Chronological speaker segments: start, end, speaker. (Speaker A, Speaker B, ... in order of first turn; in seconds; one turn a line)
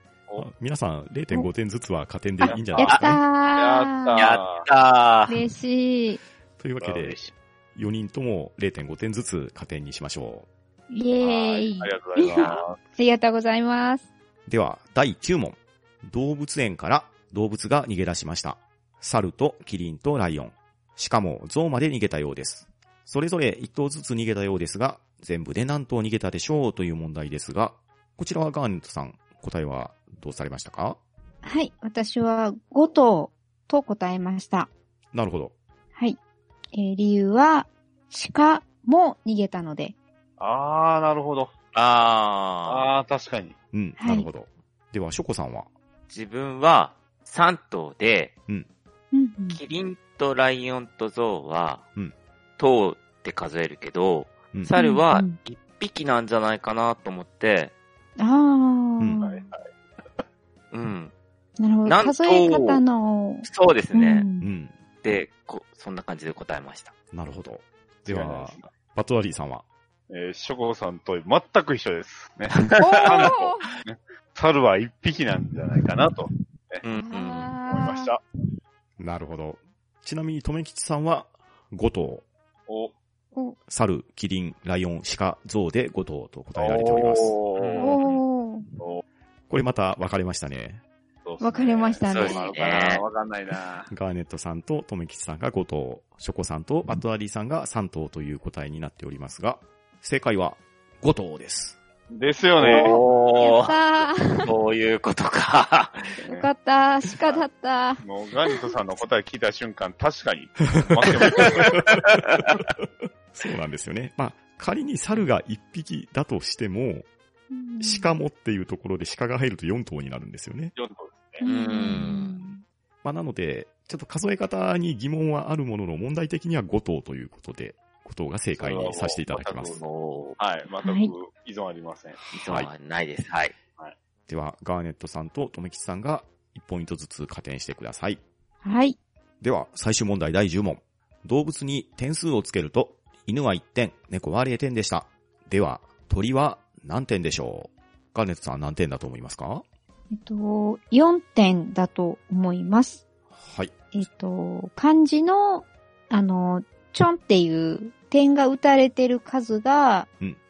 Speaker A: 0.4-3.2
Speaker B: 2.4-4.2
Speaker C: 2.4-3.0
Speaker C: 3.6-4.7
Speaker D: 4.2-5.4
Speaker B: 5.3-6.2
Speaker A: 6.6-10.5
Speaker C: 6.8-7.3
Speaker B: 10.9-14.1
Speaker C: 11.2-12.8
Speaker D: 12.3-12.7
Speaker A: 14.5-31.0
Speaker B: 31.4-34.7
Speaker A: 35.1-35.5
Speaker B: 36.7-40.0
Speaker C: 40.4-41.5
Speaker D: 41.7-42.9
Speaker C: 42.7-43.6
Speaker A: 43.7-45.7
Speaker B: 44.0-44.3
Speaker D: 46.1-48.3
Speaker B: 49.1-49.6
Speaker D: 49.5-51.8
Speaker D: 52.6-57.7
Speaker B: 54.7-55.4
Speaker B: 58.2-59.5
Speaker C: 59.2-59.6
Speaker D: 60.7-61.1
Speaker B: 61.6-64.5
Speaker D: 61.9-62.8
Speaker D: 63.4-64.2
Speaker A: 64.4-64.8
Speaker D: 65.0-66.9
Speaker A: 67.1-69.7
Speaker C: 68.1-68.7
Speaker C: 70.1-76.8
Speaker D: 72.6-73.3
Speaker B: 72.8-73.7
Speaker D: 76.8-77.5
Speaker B: 77.0-78.1
Speaker C: 77.7-78.2
Speaker A: 79.0-82.2
Speaker C: 82.7-82.9
Speaker A: 83.7-87.4
Speaker C: 86.6-88.0
Speaker D: 87.6-88.2
Speaker B: 87.8-88.7
Speaker A: 89.5-90.8
Speaker C: 91.2-93.9
Speaker B: 91.4-92.5
Speaker D: 92.1-93.0
Speaker A: 93.9-101.8
Speaker C: 102.1-103.0
Speaker D: 102.6-103.8
Speaker B: 102.8-104.5
Speaker D: 104.4-106.1
Speaker B: 106.2-108.6
Speaker C: 106.2-106.5
Speaker C: 108.0-111.9
Speaker A: 111.3-112.2
Speaker A: 113.3-117.1
Speaker B: 117.5-118.1
Speaker A: 117.8-120.7
Speaker C: 120.8-121.4
Speaker B: 121.4-122.6
Speaker D: 121.4-122.4
Speaker A: 123.0-129.8
Speaker C: 128.6-129.8
Speaker D: 129.8-130.4
Speaker C: 130.4-132.2
Speaker B: 130.8-131.1
Speaker A: 132.2-132.7
Speaker D: 132.3-133.5
Speaker A: 134.3-138.2
Speaker B: 138.6-139.0
Speaker A: 139.4-149.6
Speaker B: 150.1-153.0
Speaker A: 153.3-153.8
Speaker B: 153.9-160.1